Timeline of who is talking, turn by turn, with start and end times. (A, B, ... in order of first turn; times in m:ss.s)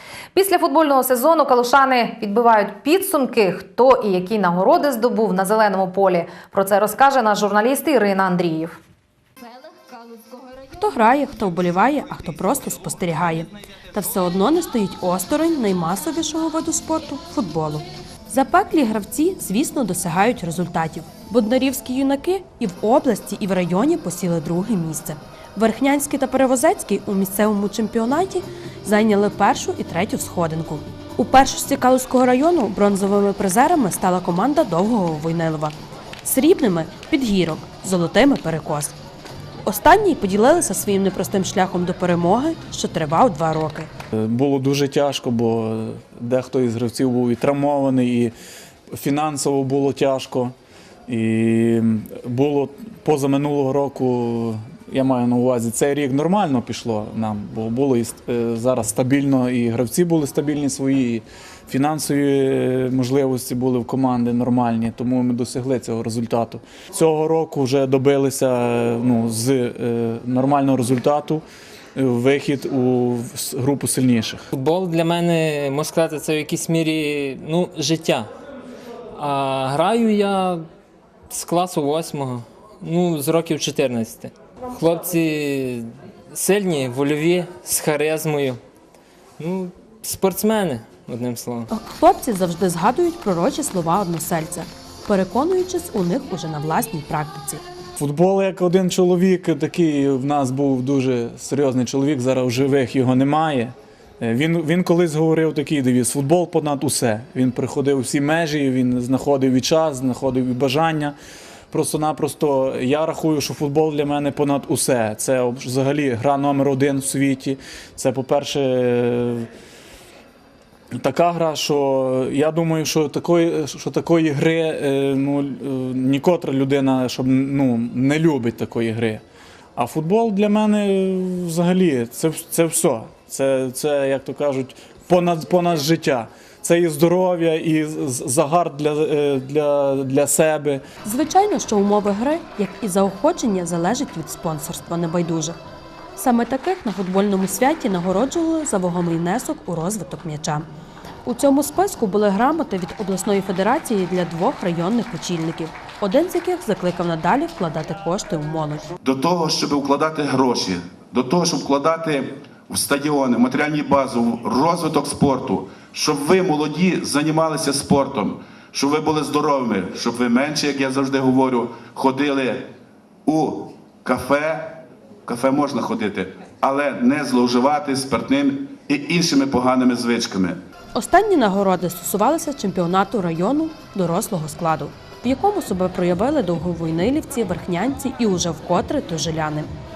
0:00.3-0:08.8 A
0:10.7-0:39.0 B
0:39.6-0:43.9 B
0:44.1-0:48.3 C
0:48.9-0:50.5 C
0:51.1-1:11.4 C
1:12.0-1:14.5 C
1:14.5-1:18.3 D
1:19.1-1:20.6 D
1:21.3-1:28.6 D
1:29.4-1:31.7 D
1:31.7-1:37.6 B
1:38.0-1:51.1 C
1:51.7-1:59.5 C
2:01.0-2:09.2 C
2:09.8-2:20.8 C
2:21.0-2:25.6 B
2:26.2-2:30.6 B
2:31.2-2:38.9 B
2:39.1-2:52.7 E
2:53.2-3:00.6 E
3:00.9-3:09.7 B